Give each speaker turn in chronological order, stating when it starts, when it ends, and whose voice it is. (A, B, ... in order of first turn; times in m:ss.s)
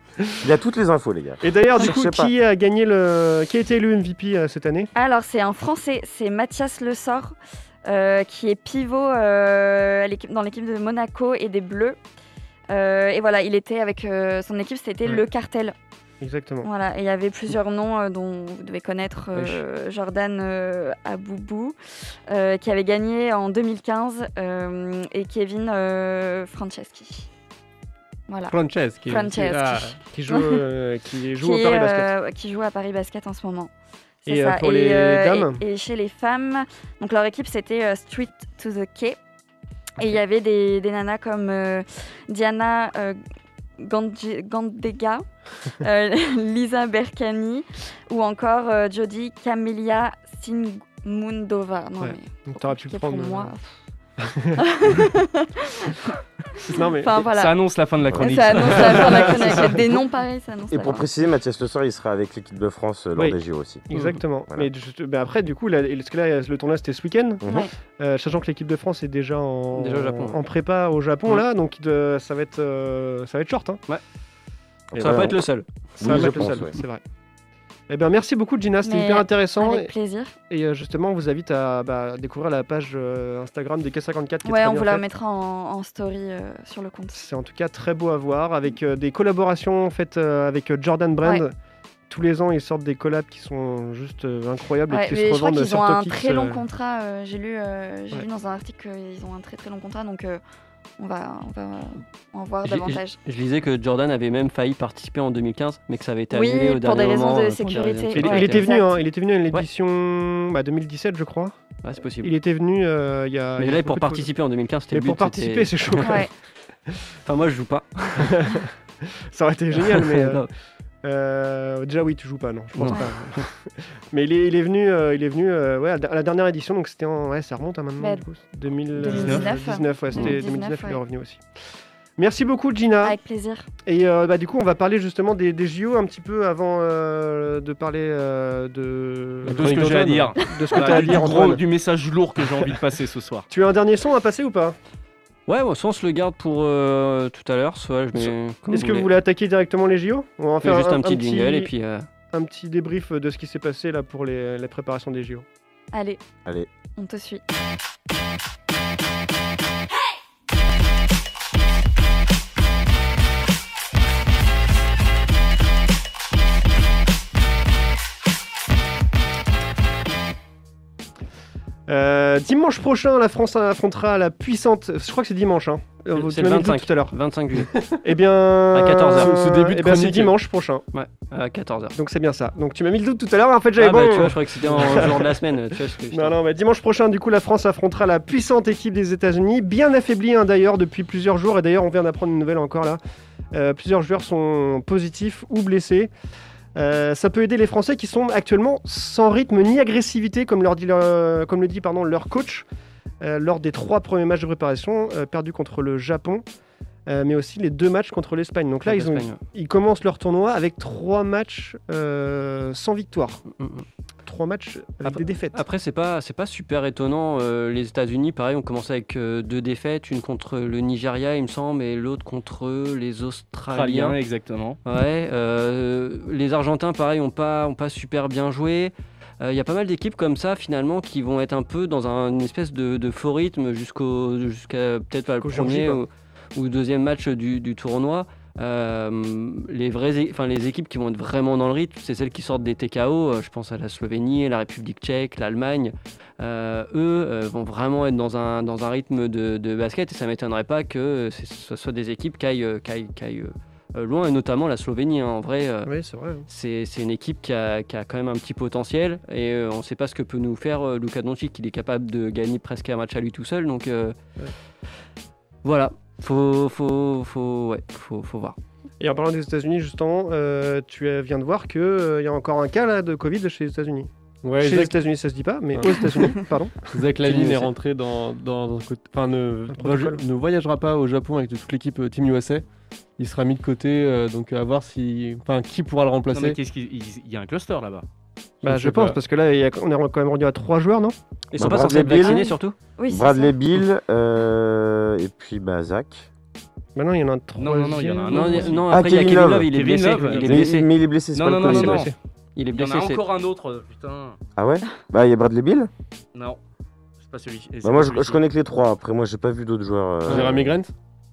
0:00.4-0:02.3 A
0:01.4-0:04.9 B
0:04.9-0:12.0 C
0:12.7-0:15.7 C
0:16.2-0:16.7 B
0:16.6-0:21.8 C
0:22.3-0:27.3 C
0:28.3-0:30.6 C
0:28.5-0:30.0 D
0:30.1-0:32.1 B
0:31.4-0:33.7 C
0:34.2-0:39.2 C
0:34.3-0:35.6 B
0:40.0-0:43.2 C
0:43.8-0:45.2 C
0:45.8-0:53.6 C
0:52.0-0:53.5 B
0:54.2-0:54.6 B
0:54.6-0:57.6 C
0:56.7-0:57.2 B
0:57.3-0:59.7 E
0:58.1-0:58.7 A
0:58.2-1:01.1 C
1:00.7-1:03.8 A
1:03.2-1:13.8 B
1:03.9-1:04.2 F
1:07.4-1:07.7 A
1:07.4-1:07.7 C
1:09.8-1:10.4 F
1:14.9-1:15.4 A
1:15.0-1:16.4 F
1:15.0-1:15.3 B
1:16.0-1:17.0 B
1:16.0-1:16.8 A
1:17.9-1:19.9 B
1:18.8-1:20.4 C
1:20.5-1:25.0 B
1:24.4-1:27.2 C
1:27.1-1:31.5 B
1:32.1-1:36.6 B
1:34.9-1:40.4 C
1:41.0-1:43.2 C
1:42.6-1:48.7 F
1:46.3-1:49.0 C
1:48.1-1:51.6 B
1:51.8-1:52.3 F
1:52.2-1:54.3 B
1:53.6-1:56.1 F
1:54.9-1:56.3 B
1:56.0-1:56.3 C
1:57.2-1:58.3 F
1:58.2-2:00.4 B
1:59.8-2:00.5 F
2:01.0-2:03.5 B
2:02.7-2:03.4 F
2:04.1-2:11.4 B
2:08.0-2:08.2 C
2:08.9-2:11.0 C
2:09.1-2:09.4 E
2:12.2-2:13.2 B
2:13.0-2:13.7 C
2:13.8-2:21.6 B
2:19.4-2:20.3 D
2:19.5-2:23.4 E
2:23.5-2:24.8 B
2:25.5-2:29.1 F
2:28.7-2:31.7 B
2:30.6-2:32.0 F
2:32.3-2:35.4 B
2:35.9-2:36.2 C
2:37.0-2:37.4 C
2:51.9-2:57.2 B
2:56.1-2:57.7 F
2:58.0-3:00.8 B
2:58.7-2:59.3 F
2:59.2-3:00.3 D
3:00.9-3:01.9 F
3:01.9-3:05.3 B
3:03.8-3:06.3 F
3:06.1-3:13.0 B
3:13.5-3:16.1 B
3:16.8-3:22.7 B
3:23.2-3:26.4 B
3:27.1-3:33.4 B
3:28.8-3:29.4 F
3:33.5-3:33.8 F
3:34.3-3:35.6 B
3:35.0-3:44.2 F
3:43.7-3:44.8 E
3:44.8-4:15.9 F
3:55.4-3:56.0 B
4:15.9-4:16.4 B
4:16.5-4:24.2 F
4:25.6-4:28.6 F
4:29.0-4:36.9 B
4:34.4-4:35.0 D
4:35.7-4:36.3 D
4:36.9-4:42.6 D
4:37.2-4:37.7 F
4:39.7-4:40.2 B
4:43.2-4:46.6 D
4:46.3-4:48.0 E
4:48.6-4:49.2 D
4:48.6-4:51.1 B
4:51.5-4:52.7 F
4:51.6-4:52.6 A
4:52.2-4:53.6 C
4:53.1-4:56.3 A
4:56.9-4:58.8 B
4:57.6-4:58.9 E
4:58.3-5:00.9 F
4:58.9-4:59.7 A
4:59.7-5:00.6 E
5:00.4-5:02.1 A
5:01.3-5:02.1 E
5:01.8-5:02.1 B
5:02.6-5:03.2 F
5:02.7-5:04.4 E
5:04.6-5:05.9 A
5:07.2-5:08.4 E
5:07.8-5:10.7 A
5:10.3-5:10.9 D